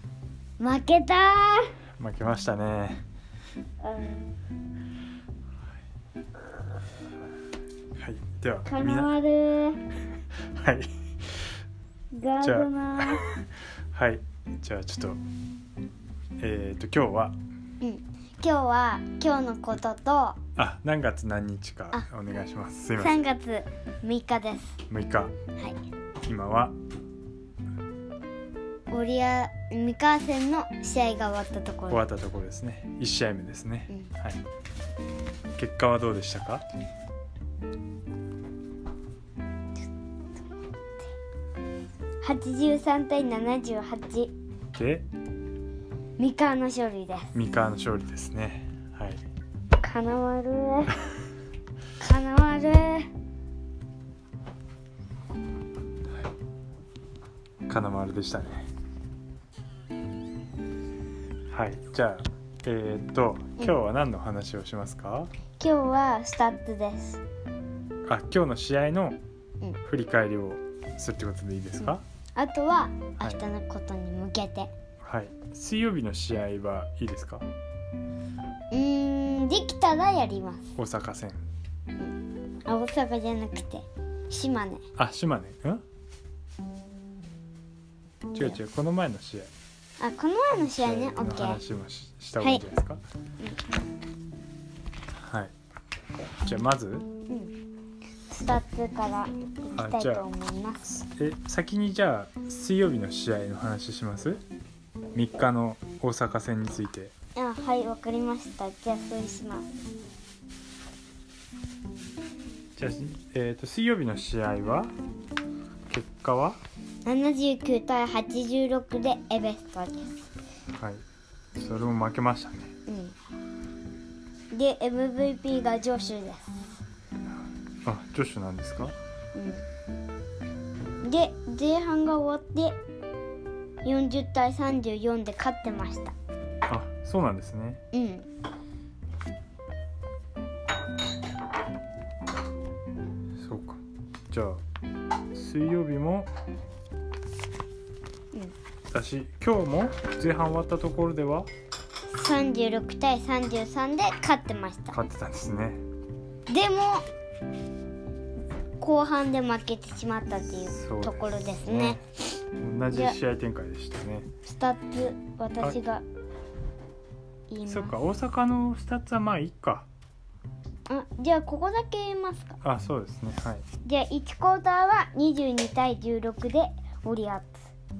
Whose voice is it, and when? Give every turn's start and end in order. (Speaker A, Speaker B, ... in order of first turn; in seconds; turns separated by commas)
Speaker A: 0.6-1.7, Speaker B: 2.0-3.0, Speaker A: 3.8-4.3, Speaker B: 8.0-9.1, Speaker A: 8.6-9.8, Speaker B: 10.5-11.5, Speaker A: 12.1-13.3, Speaker B: 12.4-15.2, Speaker B: 16.4-17.4, Speaker A: 17.8-20.4, Speaker B: 20.6-23.2, Speaker A: 23.0-24.8, Speaker B: 24.9-25.3, Speaker B: 26.2-26.7, Speaker A: 28.9-32.0, Speaker B: 31.9-34.4, Speaker B: 35.5-36.6, Speaker A: 42.2-44.3, Speaker B: 44.7-45.0, Speaker A: 46.2-47.3, Speaker B: 47.3-49.2, Speaker A: 49.8-51.0, Speaker A: 52.0-53.1, Speaker B: 57.7-58.6, Speaker B: 61.5-65.3, Speaker A: 65.6-67.2, Speaker B: 68.0-69.2, Speaker B: 69.8-72.0, Speaker A: 71.8-74.7, Speaker B: 75.0-77.5, Speaker A: 78.7-80.7, Speaker B: 80.8-81.4, Speaker A: 82.7-84.8, Speaker B: 85.0-85.8, Speaker B: 88.3-89.5, Speaker A: 90.0-91.6, Speaker B: 90.6-93.0, Speaker B: 95.2-95.5, Speaker B: 96.4-97.0, Speaker A: 97.3-97.5, Speaker A: 98.3-101.0, Speaker B: 99.7-100.2, Speaker B: 100.9-104.4, Speaker B: 105.1-107.1, Speaker A: 107.3-109.7, Speaker B: 112.8-114.9, Speaker B: 115.9-116.6, Speaker A: 117.0-120.1, Speaker B: 120.8-121.0, Speaker B: 121.5-122.7, Speaker A: 122.9-123.1, Speaker A: 124.5-126.7, Speaker B: 127.8-128.9, Speaker A: 129.3-129.7, Speaker A: 131.0-132.8, Speaker A: 133.8-136.1, Speaker B: 136.7-137.8, Speaker A: 137.9-138.3, Speaker B: 143.4-144.6, Speaker B: 145.3-146.3, Speaker B: 148.9-151.5, Speaker A: 152.1-155.0, Speaker B: 154.9-155.8, Speaker A: 156.5-157.0, Speaker A: 158.8-162.0, Speaker B: 160.7-162.0, Speaker B: 162.6-164.3, Speaker A: 162.9-163.2, Speaker A: 164.4-166.0, Speaker A: 167.5-168.0, Speaker B: 167.7-169.9, Speaker A: 170.9-172.6, Speaker B: 172.6-173.6, Speaker A: 173.8-177.7